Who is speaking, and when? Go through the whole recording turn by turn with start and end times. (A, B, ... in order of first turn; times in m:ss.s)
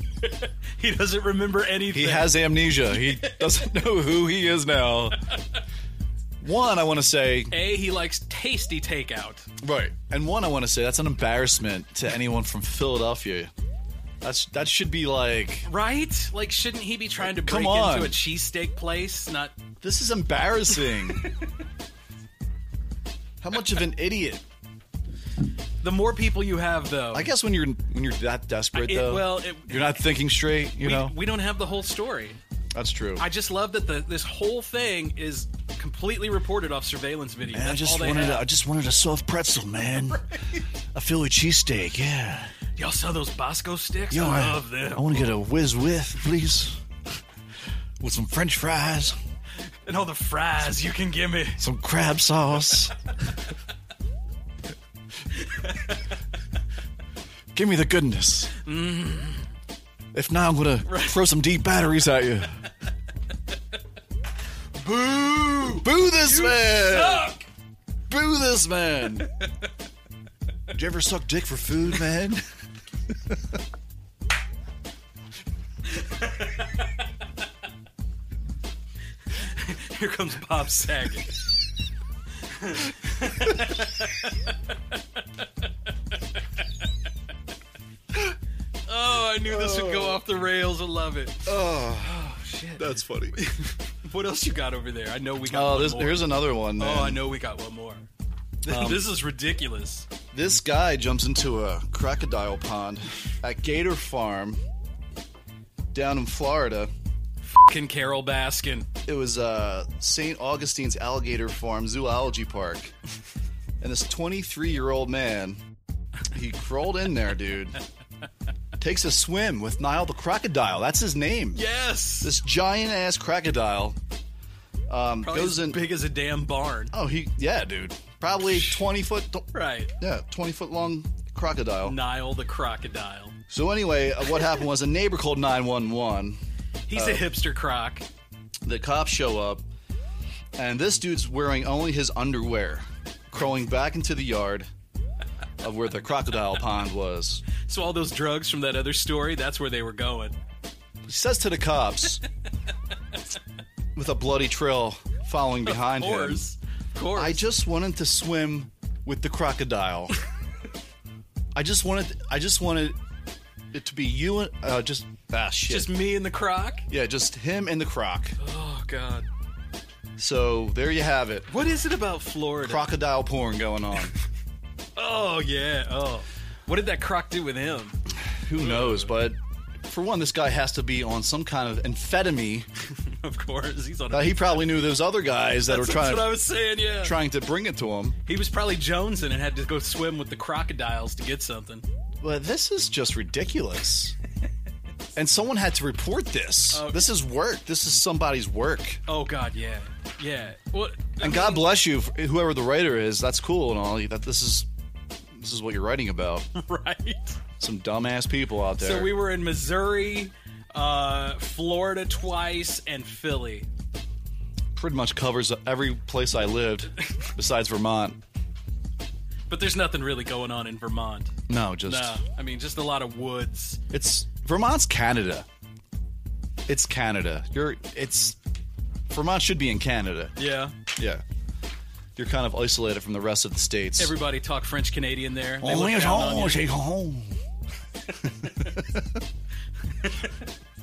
0:00.2-0:03.7 A
0:01.9-0:05.2 B
0:06.4-0:07.6 B
0:07.5-0:09.5 A
0:09.6-0:13.5 B
0:14.2-0:15.7 B
0:15.6-0:19.6 A
0:17.2-0:18.2 B
0:19.8-0:21.2 B
0:20.7-0:21.5 A
0:23.4-0:24.4 B
0:25.8-0:27.3 A
0:27.1-0:31.2 B
0:28.7-0:30.0 A
0:30.8-0:32.4 A
0:32.7-0:33.3 B
0:33.2-0:38.5 A
0:37.4-0:40.3 B
0:40.1-0:40.6 A
0:40.9-0:42.5 B
0:42.8-0:45.3 A
0:44.1-0:46.8 B
0:48.0-0:49.2 B
0:49.8-0:51.6 A
0:51.6-0:52.9 B
0:55.4-0:56.0 A
0:57.5-0:58.5 B
0:58.6-0:59.5 A
1:00.1-1:02.7 B
1:00.8-1:01.3 A
1:04.8-1:07.5 A
1:05.6-1:07.3 B
1:08.1-1:09.3 B
1:09.2-1:09.5 A
1:10.7-1:12.4 B
1:15.9-1:16.9 A
1:19.3-1:21.4 A
1:22.4-1:25.0 A
1:28.9-1:38.1 A
1:29.4-1:30.2 B
1:31.4-1:33.4 B
1:35.4-1:37.2 B
1:38.6-1:40.1 A
1:38.6-1:39.1 B
1:40.3-1:44.6 B
1:45.9-1:46.9 B
1:47.5-1:48.9 A
1:49.1-1:52.9 B
1:53.8-1:55.6 B
1:56.3-1:57.8 B
1:58.8-2:01.7 B
2:01.5-2:02.4 A
2:02.2-2:04.0 B
2:04.9-2:05.8 B
2:05.2-2:06.9 A
2:06.9-2:12.0 B
2:08.4-2:08.8 A
2:09.5-2:09.9 A
2:11.8-2:13.4 A
2:13.5-2:16.4 B
2:16.9-2:18.1 A
2:16.9-2:17.3 B
2:18.6-2:19.6 B
2:20.6-2:24.7 B
2:25.6-2:27.4 B
2:27.6-2:30.4 A
2:31.1-2:32.2 B
2:34.0-2:36.5 B
2:35.6-2:37.4 A
2:37.1-2:40.2 B
2:41.6-2:43.0 B
2:43.7-2:45.9 B
2:45.7-2:46.9 A
2:46.9-2:48.4 B
2:48.4-2:49.3 A
2:50.2-2:51.5 B
2:51.5-2:52.9 A
2:52.6-2:54.1 B
2:55.0-2:58.0 A
2:58.2-3:02.7 B
2:58.6-2:59.1 A
3:02.9-3:04.9 A
3:04.1-3:06.4 B
3:05.6-3:07.2 A
3:07.0-3:08.2 B
3:08.3-3:11.9 A
3:12.2-3:14.2 B
3:15.2-3:19.0 B
3:16.7-3:17.1 A
3:19.1-3:21.7 A
3:21.2-3:24.7 B
3:25.4-3:26.5 B
3:26.5-3:27.4 A
3:27.6-3:29.1 B
3:28.8-3:33.7 A
3:34.8-3:38.2 B
3:39.5-3:43.8 A
3:41.5-3:42.2 B
3:43.9-3:45.5 B
3:46.7-3:48.4 B
3:49.1-3:50.4 B
3:50.4-3:50.8 A
3:51.0-3:51.2 B
3:52.2-3:54.2 B
3:54.0-3:56.7 A
3:55.6-3:57.4 B
3:58.4-3:59.1 B
4:00.0-4:00.3 A